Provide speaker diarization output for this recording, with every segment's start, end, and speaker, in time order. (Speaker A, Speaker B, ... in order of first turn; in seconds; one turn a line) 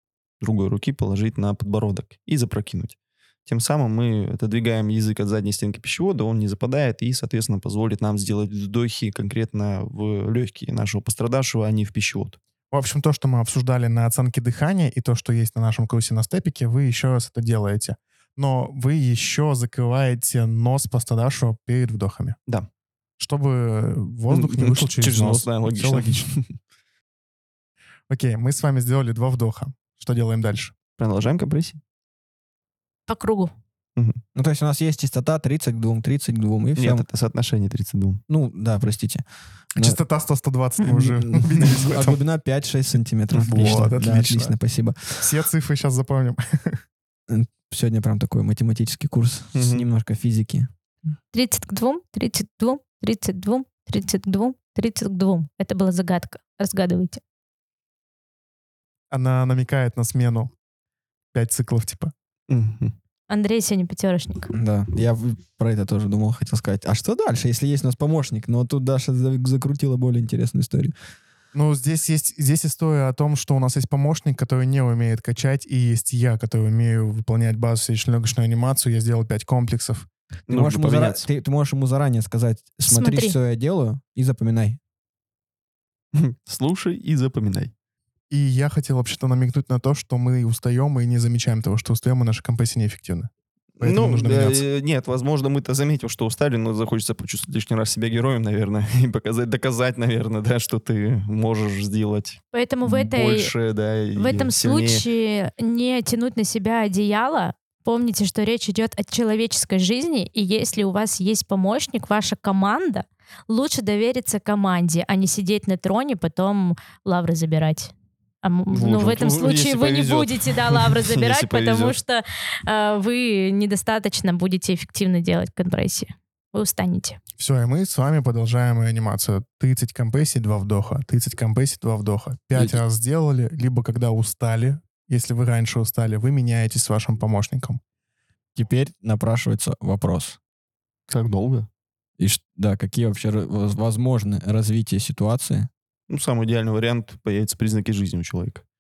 Speaker A: 0.4-12.4
Speaker B: 12.7-22.4
Speaker B: 23.2-26.3
Speaker A: 24.3-26.5
Speaker B: 28.1-30.7
Speaker A: 31.0-31.8
Speaker C: 33.1-33.5
Speaker D: 34.4-37.0
Speaker A: 36.8-38.2
Speaker D: 38.3-39.2
Speaker B: 39.8-42.2
Speaker D: 40.9-45.3
Speaker A: 43.3-43.9
Speaker B: 43.5-44.6
Speaker B: 45.2-46.8
Speaker D: 47.3-50.7
Speaker A: 49.5-49.9
Speaker C: 51.3-57.2
Speaker B: 59.1-60.5
Speaker B: 61.3-62.1
Speaker A: 62.5-62.9
Speaker C: 63.3-64.5
Speaker D: 64.5-70.9
Speaker B: 71.5-80.1
Speaker A: 80.5-81.3
Speaker D: 80.5-84.8
Speaker C: 82.9-83.4
Speaker A: 86.2-87.7
Speaker B: 88.3-94.7
Speaker A: 93.8-105.0
Speaker C: 102.5-103.5
Speaker C: 104.2-117.9
Speaker C: 118.4-127.2
Speaker A: 118.7-122.0
Speaker B: 127.4-137.8
Speaker D: 138.6-140.4
Speaker A: 141.1-141.7
Speaker D: 142.2-145.7
Speaker A: 146.1-148.6